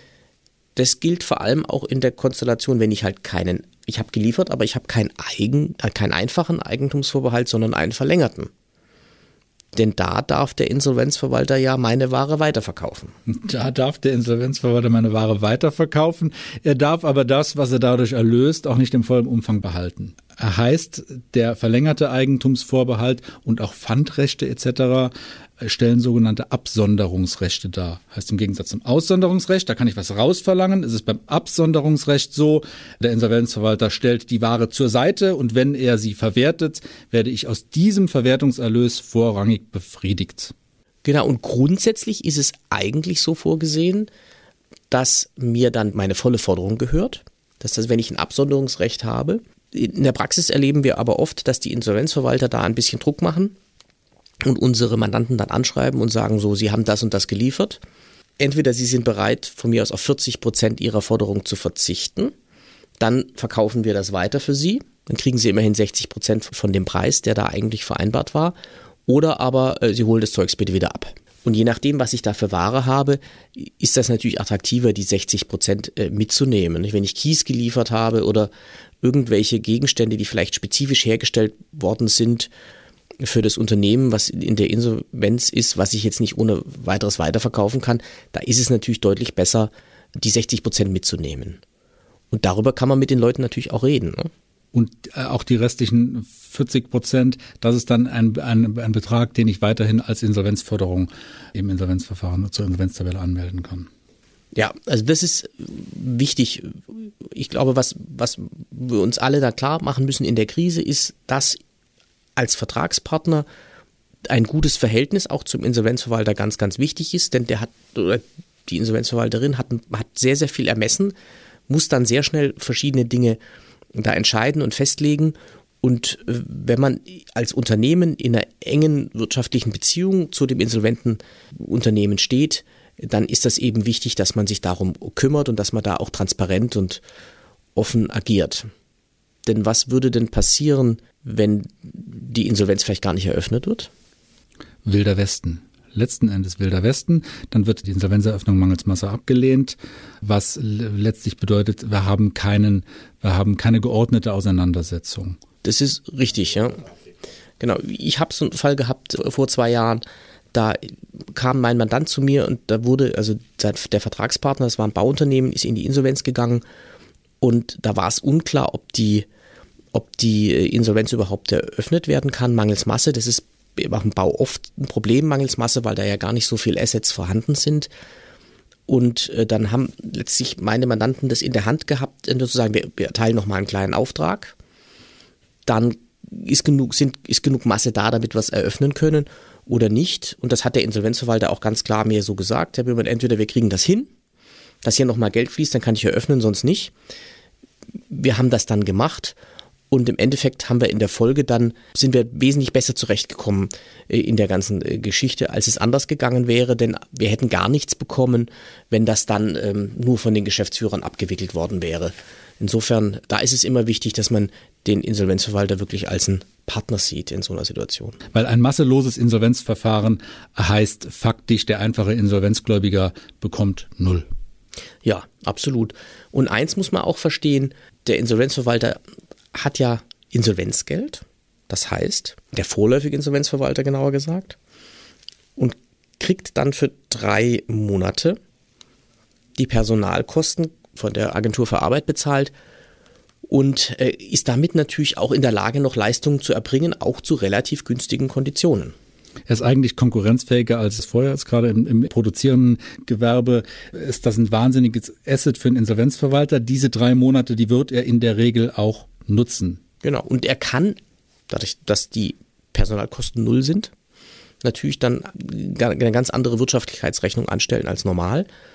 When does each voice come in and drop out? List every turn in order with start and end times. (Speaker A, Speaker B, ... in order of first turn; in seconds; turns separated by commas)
Speaker A: 0.8-8.5, Speaker A: 9.7-13.1, Speaker B: 13.3-40.5, Speaker A: 41.0-44.1, Speaker A: 44.9-53.5, Speaker A: 54.4-57.8, Speaker A: 58.4-62.3, Speaker A: 63.0-78.5, Speaker A: 79.0-82.5, Speaker A: 83.2-91.6, Speaker A: 92.3-94.3, Speaker B: 94.7-103.9, Speaker A: 104.5-111.6, Speaker A: 112.3-113.5, Speaker A: 114.3-121.1, Speaker A: 121.7-123.4, Speaker A: 123.9-137.0, Speaker A: 137.7-138.7, Speaker A: 139.4-143.9, Speaker B: 144.8-155.4, Speaker A: 155.6-156.8, Speaker A: 157.6-166.6, Speaker A: 167.4-169.3, Speaker A: 169.9-177.9, Speaker A: 178.9-184.6, Speaker A: 185.7-194.1, Speaker A: 194.8-196.9, Speaker A: 198.1-199.4, Speaker A: 199.9-218.2, Speaker B: 218.3-224.2, Speaker A: 225.0-229.0, Speaker A: 229.5-234.6, Speaker A: 235.6-238.4, Speaker A: 239.6-242.5, Speaker A: 243.5-248.9, Speaker B: 249.5-259.8, Speaker A: 260.0-261.0, Speaker A: 261.5-263.9, Speaker A: 264.6-268.5